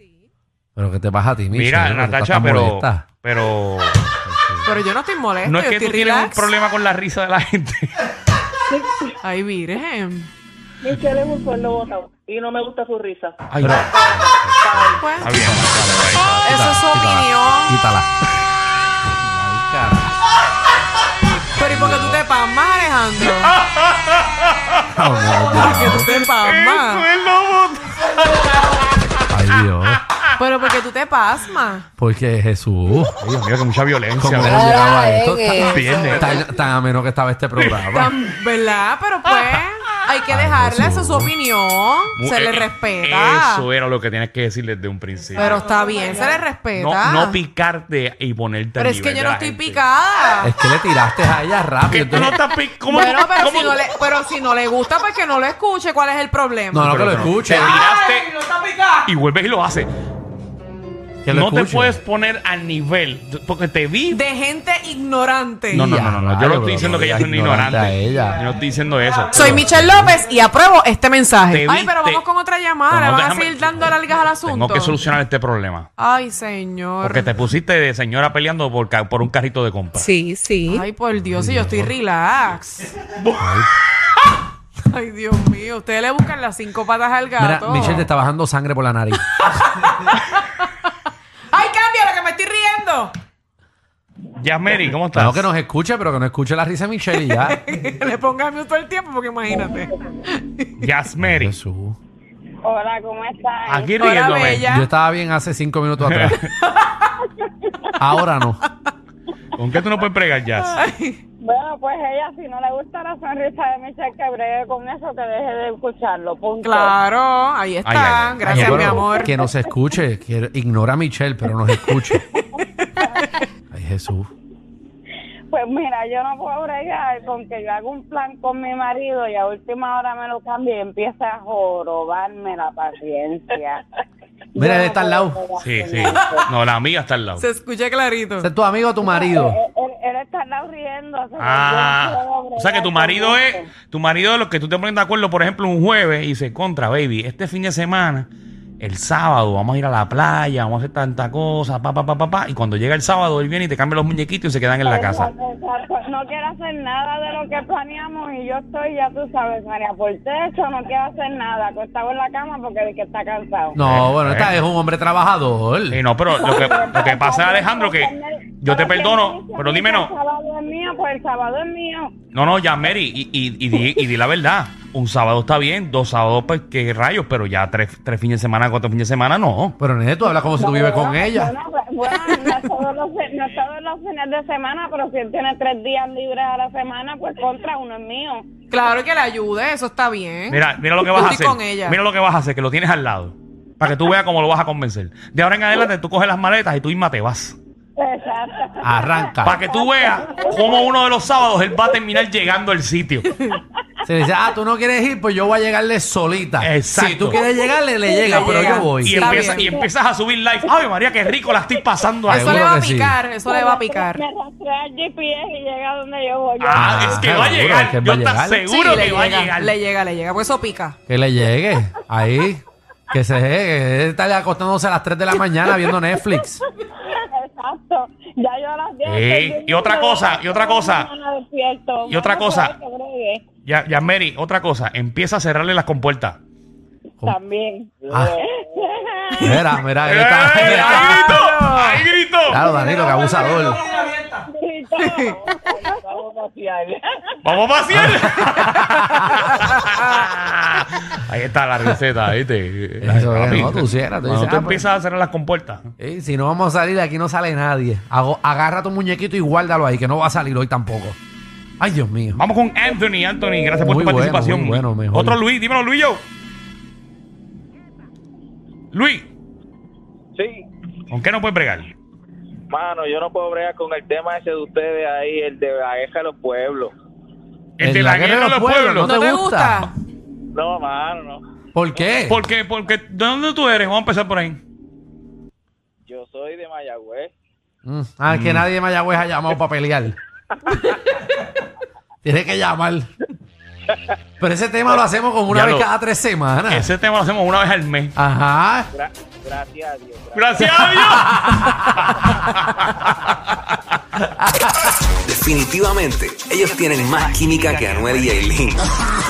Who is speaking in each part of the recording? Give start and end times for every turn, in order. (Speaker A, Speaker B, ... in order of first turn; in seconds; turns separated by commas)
Speaker A: 0.8-3.0, Speaker B: 1.5-4.0, Speaker A: 4.2-4.7, Speaker C: 4.6-6.5, Speaker B: 5.4-8.0, Speaker D: 8.7-9.1, Speaker C: 9.2-10.3, Speaker D: 10.8-15.6, Speaker B: 13.5-14.0, Speaker A: 13.6-18.1, Speaker C: 15.0-15.4, Speaker B: 15.2-16.6, Speaker C: 16.4-17.8, Speaker A: 19.2-20.1, Speaker C: 21.6-23.6, Speaker A: 21.6-22.2, Speaker B: 23.2-29.2, Speaker A: 24.9-26.1, Speaker C: 25.5-27.1, Speaker A: 29.3-30.0, Speaker C: 30.4-31.9, Speaker A: 32.0-33.2, Speaker B: 33.2-35.0, Speaker A: 34.2-38.1, Speaker E: 34.5-35.9, Speaker B: 35.7-36.4, Speaker C: 37.9-43.6, Speaker A: 40.3-41.3, Speaker B: 42.1-45.6, Speaker C: 45.4-47.4, Speaker B: 46.7-49.8, Speaker C: 48.8-50.5, Speaker A: 50.4-52.4, Speaker B: 51.9-53.8, Speaker C: 52.9-56.9, Speaker A: 56.7-57.8, Speaker B: 56.8-58.4, Speaker B: 59.0-59.9, Speaker A: 61.2-62.0, Speaker B: 61.3-64.2, Speaker C: 64.1-65.9, Speaker B: 65.7-69.6, Speaker A: 65.8-68.4, Speaker C: 69.3-75.0, Speaker A: 69.4-70.2, Speaker B: 71.5-72.2, Speaker B: 72.9-75.9, Speaker C: 76.0-77.3, Speaker B: 77.0-80.1, Speaker E: 80.0-80.8, Speaker C: 80.7-82.9, Speaker A: 81.1-81.9, Speaker B: 83.2-83.6, Speaker A: 83.4-83.7, Speaker C: 84.8-88.1, Speaker A: 87.4-89.3, Speaker C: 89.5-90.7, Speaker C: 91.5-93.1, Speaker B: 94.4-95.5, Speaker A: 95.1-97.6, Speaker C: 97.1-100.8, Speaker B: 100.8-101.5, Speaker A: 101.2-102.0, Speaker F: 102.6-103.9, Speaker B: 103.7-104.7, Speaker C: 104.0-104.9, Speaker A: 104.6-106.4, Speaker B: 106.0-106.5, Speaker C: 106.6-107.2, Speaker A: 108.0-108.6, Speaker B: 109.5-110.8, Speaker C: 110.7-111.2, Speaker F: 111.4-117.0, Speaker C: 116.6-119.3, Speaker B: 117.8-119.0, Speaker A: 118.4-122.2, Speaker C: 121.8-123.4, Speaker A: 123.7-124.3, Speaker F: 125.5-133.8, Speaker F: 134.5-136.4, Speaker A: 134.6-135.4, Speaker B: 135.6-137.4, Speaker C: 136.2-136.4, Speaker C: 137.4-138.5, Speaker A: 138.4-139.6, Speaker F: 139.0-143.7, Speaker B: 141.4-148.3, Speaker B: 148.8-155.3, Speaker F: 154.8-163.8, Speaker A: 163.7-166.0, Speaker B: 163.8-164.6, Speaker B: 165.9-170.1, Speaker F: 166.3-172.1, Speaker B: 172.3-179.8, Speaker A: 179.8-181.5, Speaker F: 180.2-188.4, Speaker C: 188.7-192.0, Speaker B: 190.5-197.6, Speaker F: 198.0-200.9, Speaker A: 198.8-199.6, Speaker B: 199.4-203.3, Speaker A: 204.0-209.4, Speaker B: 206.6-207.5, Speaker F: 208.1-208.4, Speaker C: 208.2-209.7, Speaker B: 208.4-212.7, Speaker F: 209.6-209.9, Speaker A: 212.3-213.2, Speaker C: 212.3-214.2, Speaker F: 213.5-217.4, Speaker B: 216.6-219.7, Speaker A: 216.7-218.7, Speaker C: 218.7-221.0, Speaker A: 221.1-226.6, Speaker F: 226.3-233.4, Speaker B: 229.0-231.1, Speaker B: 232.1-232.7, Speaker B: 233.6-236.4, Speaker F: 237.2-239.5, Speaker G: 238.0-238.5, Speaker A: 238.1-238.3, Speaker A: 239.4-241.4, Speaker B: 240.0-242.6, Speaker C: 240.7-242.0, Speaker A: 242.5-243.8, Speaker F: 242.7-243.8, Speaker F: 244.3-247.0, Speaker C: 245.0-245.3, Speaker B: 247.4-255.9, Speaker A: 247.9-249.5, Speaker A: 253.0-254.8, Speaker A: 256.0-261.2, Speaker A: 261.8-262.4, Speaker B: 262.3-266.2, Speaker A: 263.6-265.4, Speaker B: 268.9-269.3, Speaker G: 270.4-270.6, Speaker B: 271.1-271.9, Speaker G: 272.7-276.9, Speaker B: 277.8-279.1, Speaker A: 277.8-279.9, Speaker C: 279.0-279.9, Speaker G: 280.5-281.4, Speaker A: 281.7-282.4, Speaker B: 282.3-284.6, Speaker G: 286.1-287.3, Speaker A: 287.8-290.2, Speaker B: 288.3-288.7, Speaker A: 292.2-293.1, Speaker A: 294.4-296.9, Speaker B: 295.5-295.9, Speaker B: 296.7-298.1, Speaker A: 298.1-298.9, Speaker G: 298.9-301.0, Speaker B: 300.3-303.7, Speaker A: 300.6-302.3, Speaker A: 304.4-304.8, Speaker H: 305.2-308.9